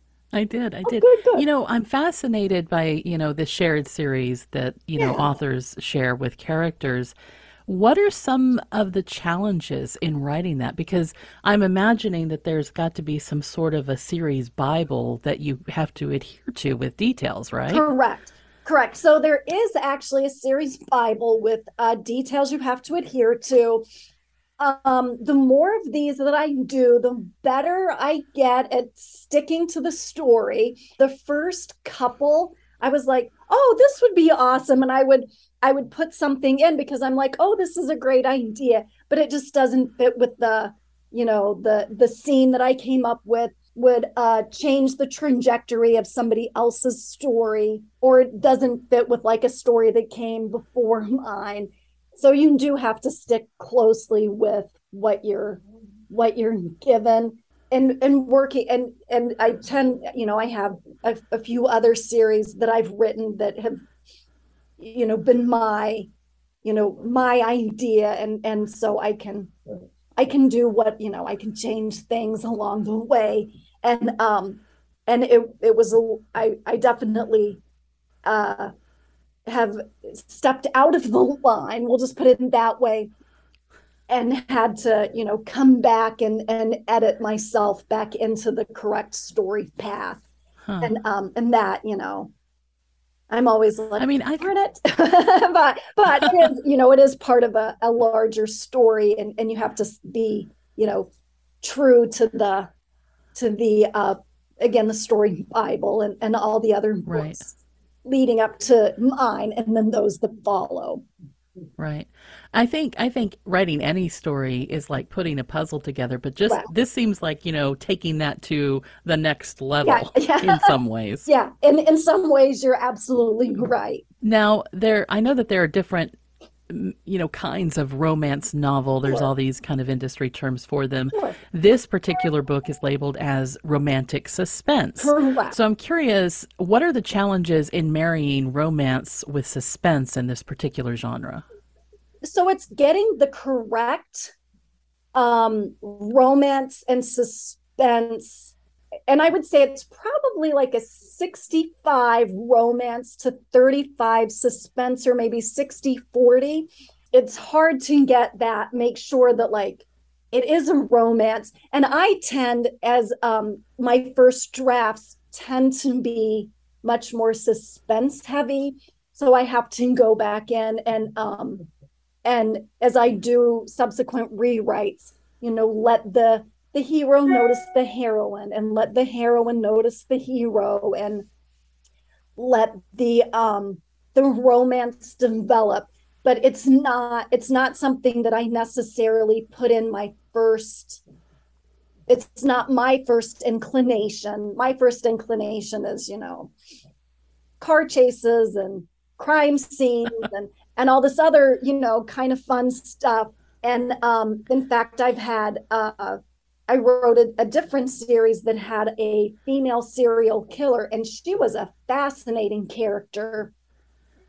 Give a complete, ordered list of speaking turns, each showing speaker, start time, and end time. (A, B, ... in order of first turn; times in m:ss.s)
0:00.3-0:07.1 A
0:00.8-0:01.4 B
0:05.0-0:05.3 B
0:07.6-0:17.8 A
0:17.7-0:23.8 B
0:24.6-1:03.8 B
1:04.8-1:06.1 B
1:06.6-1:09.5 B
1:10.2-1:17.6 B
1:18.2-1:18.7 B
1:19.4-1:23.1 B
1:24.1-1:30.2 B
1:30.6-1:30.9 A
1:30.8-1:32.3 B
1:33.3-1:41.1 B
1:34.0-1:34.5 A
1:41.6-1:42.7 B
1:43.3-1:51.0 B
1:47.1-1:47.4 A
1:51.8-2:01.3 A
1:56.4-1:56.7 B
1:59.8-2:04.0 B
2:04.2-2:06.2 A
2:06.7-2:21.4 A
2:11.1-2:11.4 B
2:15.0-2:15.6 B
2:22.2-2:24.3 B
2:25.1-2:28.6 B
2:29.1-2:51.7 B
2:52.2-3:01.3 B
3:02.4-3:11.0 B
3:12.1-3:16.5 B
3:17.6-3:33.5 B